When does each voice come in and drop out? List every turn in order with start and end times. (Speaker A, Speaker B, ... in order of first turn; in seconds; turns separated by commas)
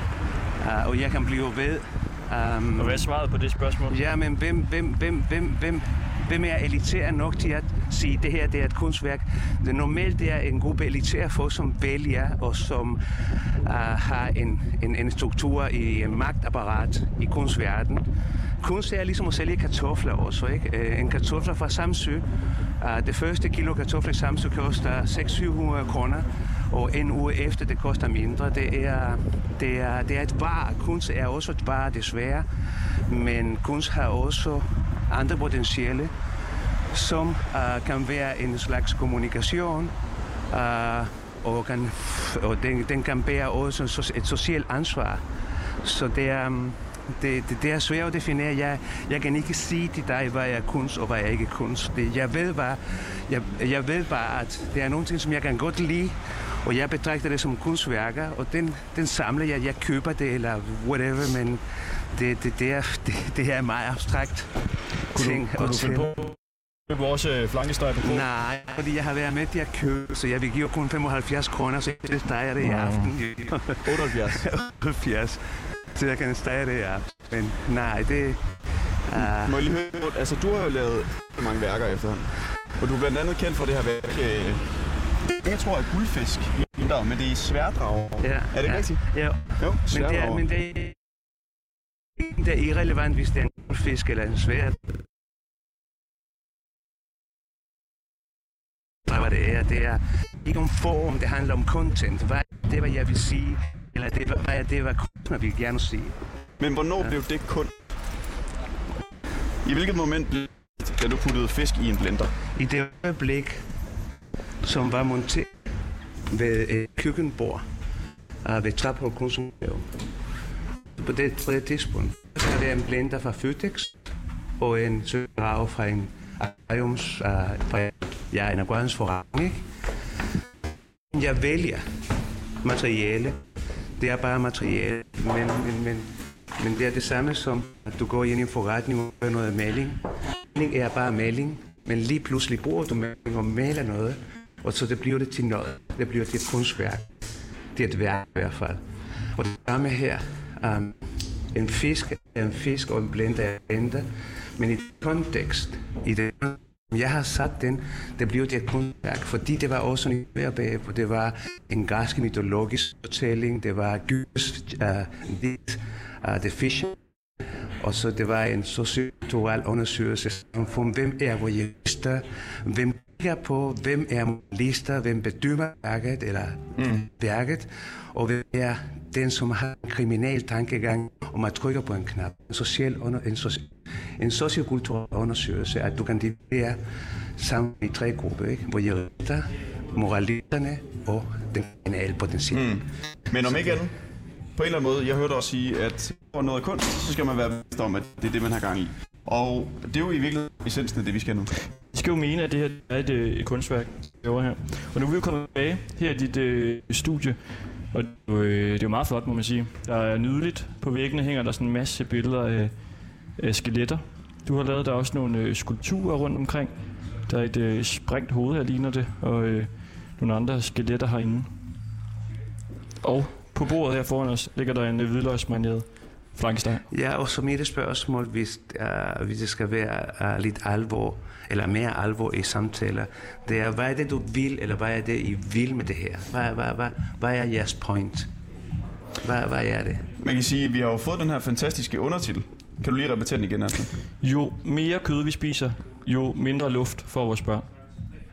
Speaker A: 0.6-3.0, Speaker B: 2.8-4.0, Speaker A: 3.9-13.0, Speaker A: 13.6-18.1, Speaker A: 18.6-22.2, Speaker A: 22.8-32.5, Speaker A: 33.1-36.1, Speaker A: 36.9-39.9, Speaker A: 40.5-45.2, Speaker A: 45.8-61.6, Speaker A: 62.1-64.5, Speaker B: 65.1-66.3, Speaker A: 65.1-66.1, Speaker B: 66.9-68.2, Speaker A: 68.0-73.9, Speaker B: 72.6-73.1, Speaker C: 73.8-74.5, Speaker A: 74.4-75.4, Speaker A: 75.9-78.4, Speaker A: 79.1-79.5, Speaker C: 79.2-84.6, Speaker C: 85.4-89.0, Speaker A: 88.2-90.9, Speaker C: 89.6-90.4, Speaker A: 92.2-94.8, Speaker A: 99.1-106.2, Speaker C: 106.6-107.8, Speaker C: 109.6-112.3, Speaker A: 112.5-113.6, Speaker A: 114.6-115.5, Speaker A: 116.3-117.6, Speaker A: 118.4-119.9, Speaker A: 121.0-124.0, Speaker A: 124.6-129.6, Speaker A: 131.1-131.8, Speaker A: 132.6-133.4, Speaker A: 134.0-140.0, Speaker A: 140.5-147.1, Speaker A: 147.7-148.8, Speaker A: 149.3-150.9, Speaker A: 151.5-167.0, Speaker A: 167.8-186.8, Speaker A: 187.4-192.8, Speaker C: 192.5-193.9, Speaker C: 194.5-201.5, Speaker B: 201.9-207.4, Speaker B: 207.9-212.7, Speaker B: 213.4-216.7, Speaker B: 217.3-221.5, Speaker B: 223.0-226.8, Speaker A: 226.9-238.3, Speaker A: 239.2-240.1, Speaker C: 240.2-243.9, Speaker B: 244.2-247.7